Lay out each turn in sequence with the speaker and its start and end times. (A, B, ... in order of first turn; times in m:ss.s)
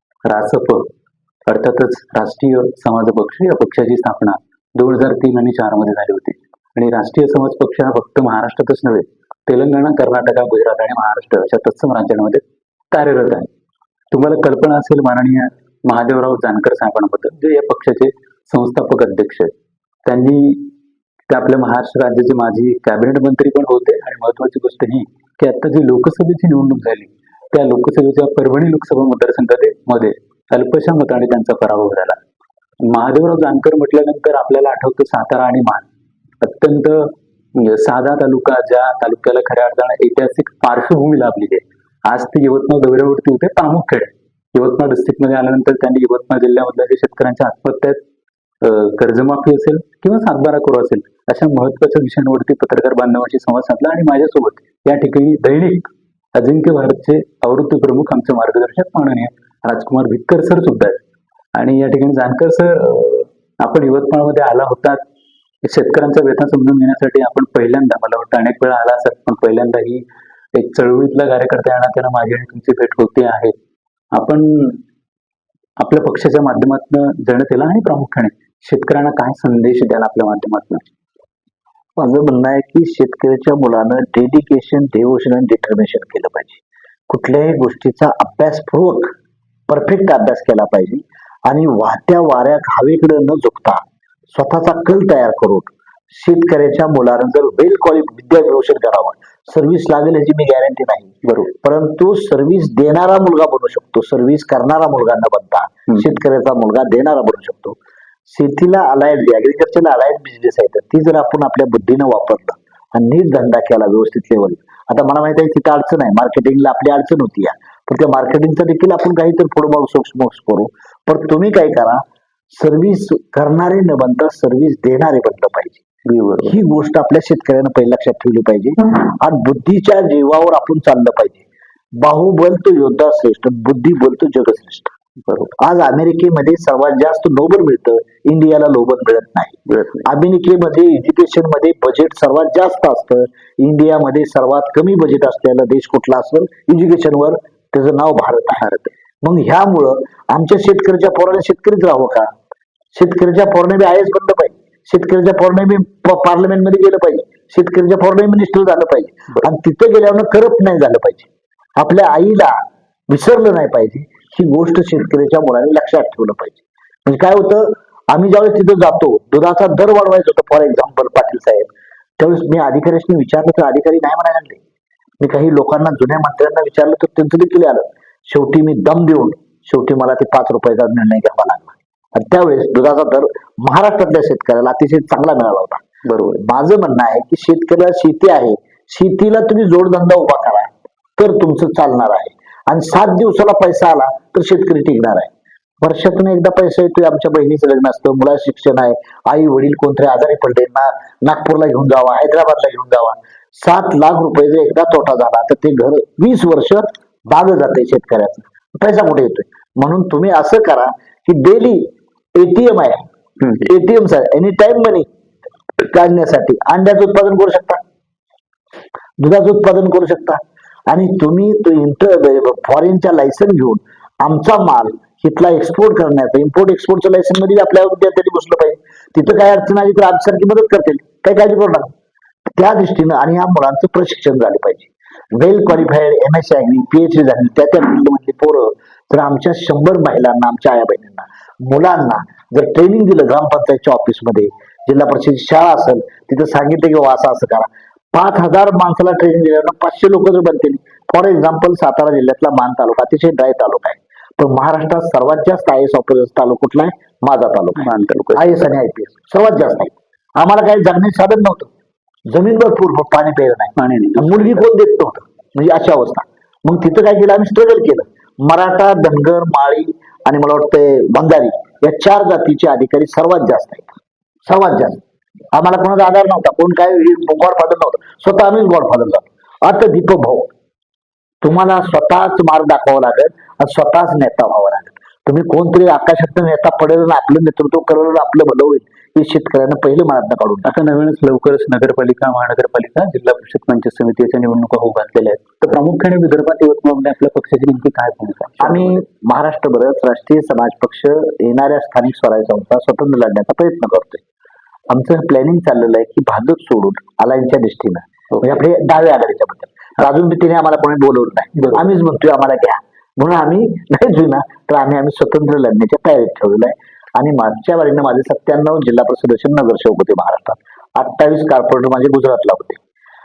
0:00.2-0:00.9 A
0:01.4-0:13.5 A
0:14.1-0:19.5 A
0:20.0-0:20.7 A
0:21.3-0:32.2 A
0:32.8-0:35.9 A
0:36.4-0:48.0 A
0:48.6-1:01.0 A
1:01.6-1:05.0 A
1:05.6-1:13.6 A
1:14.1-1:14.8 A
1:15.8-1:20.8 A
1:22.0-1:29.1 B
1:29.7-1:47.8 B
1:41.2-1:41.5 A
1:48.3-2:05.8 B
2:06.1-2:06.5 A
2:06.4-2:11.4 B
2:12.0-2:14.9 B
2:15.3-2:15.5 A
2:15.6-2:28.7 B
2:19.7-2:20.0 A
2:28.6-2:28.9 A
2:29.2-2:32.3 B
2:32.9-2:42.6 B
2:43.1-2:54.6 B
2:55.2-3:05.8 B
3:06.0-3:06.4 A
3:06.4-3:33.0 B
3:33.6-3:35.1 B
3:35.8-3:37.8 B
3:39.2-3:51.9 B
3:52.5-4:21.7 B
4:17.8-4:18.6 A
4:22.3-4:35.0 B
4:23.8-4:24.6 A
4:35.5-4:40.5 B
4:41.4-4:50.7 B
4:50.6-4:59.0 A
4:58.6-5:04.2 B
5:04.9-5:22.8 B
5:11.6-5:11.8 A